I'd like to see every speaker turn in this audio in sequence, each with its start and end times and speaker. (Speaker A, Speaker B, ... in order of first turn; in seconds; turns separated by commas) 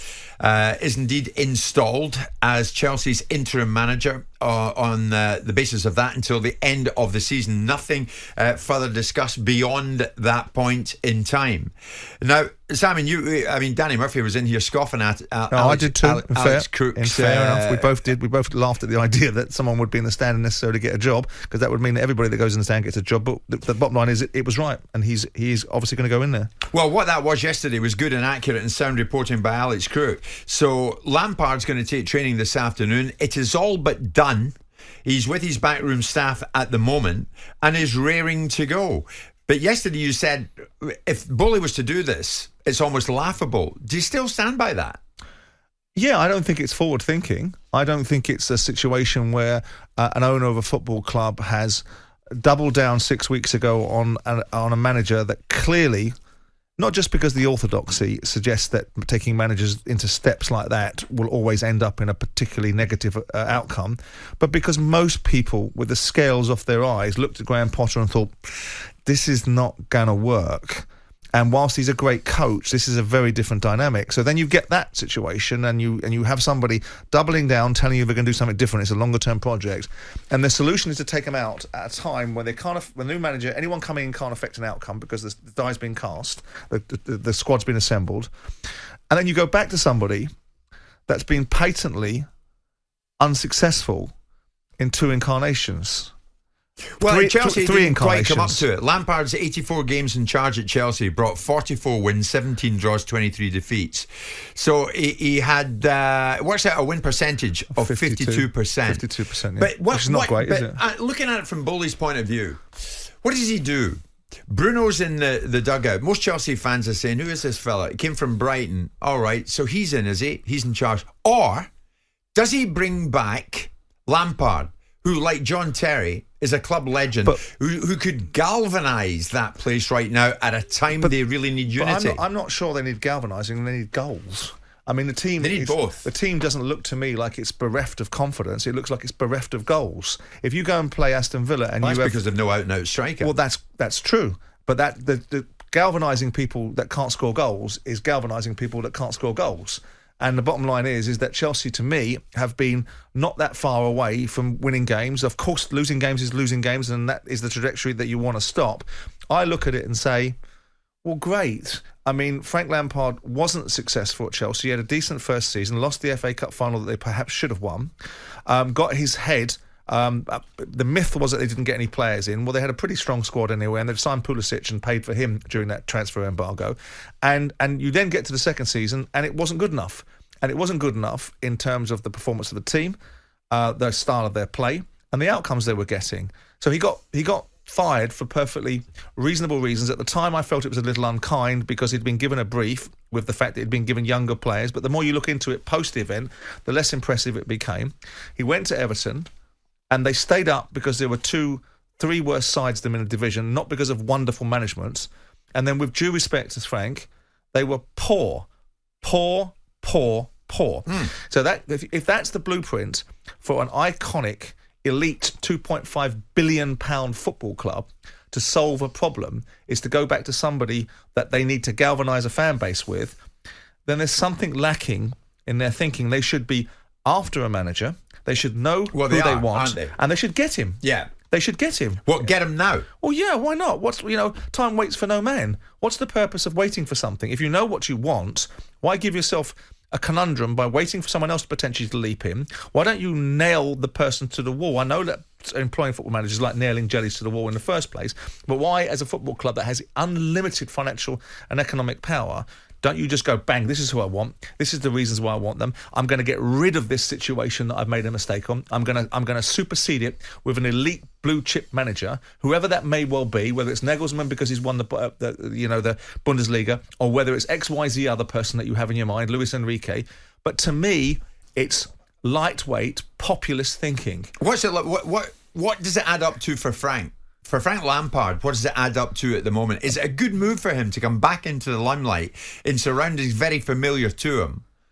Speaker A: 0.4-17.8, Speaker B: 15.5-26.5, Speaker A: 26.7-45.0, Speaker B: 46.0-51.8, Speaker B: 52.4-56.1, Speaker B: 56.8-68.5, Speaker B: 69.0-88.3, Speaker B: 89.1-90.3, Speaker B: 91.1-92.2, Speaker B: 93.2-94.1, Speaker B: 94.8-96.1, Speaker A: 97.0-109.0, Speaker B: 97.0-98.7, Speaker B: 107.7-110.8, Speaker A: 109.6-112.6, Speaker A: 113.2-121.7, Speaker A: 122.3-132.2, Speaker B: 131.7-142.2, Speaker A: 135.4-136.1, Speaker A: 141.8-143.3, Speaker B: 143.2-160.3, Speaker B: 161.0-167.9, Speaker B: 168.4-183.0, Speaker B: 183.5-199.3, Speaker B: 199.9-208.5, Speaker B: 209.0-223.2, Speaker B: 223.8-232.1, Speaker A: 228.9-229.9, Speaker A: 230.8-231.1, Speaker A: 232.1-232.8, Speaker B: 233.0-274.3, Speaker A: 274.4-284.6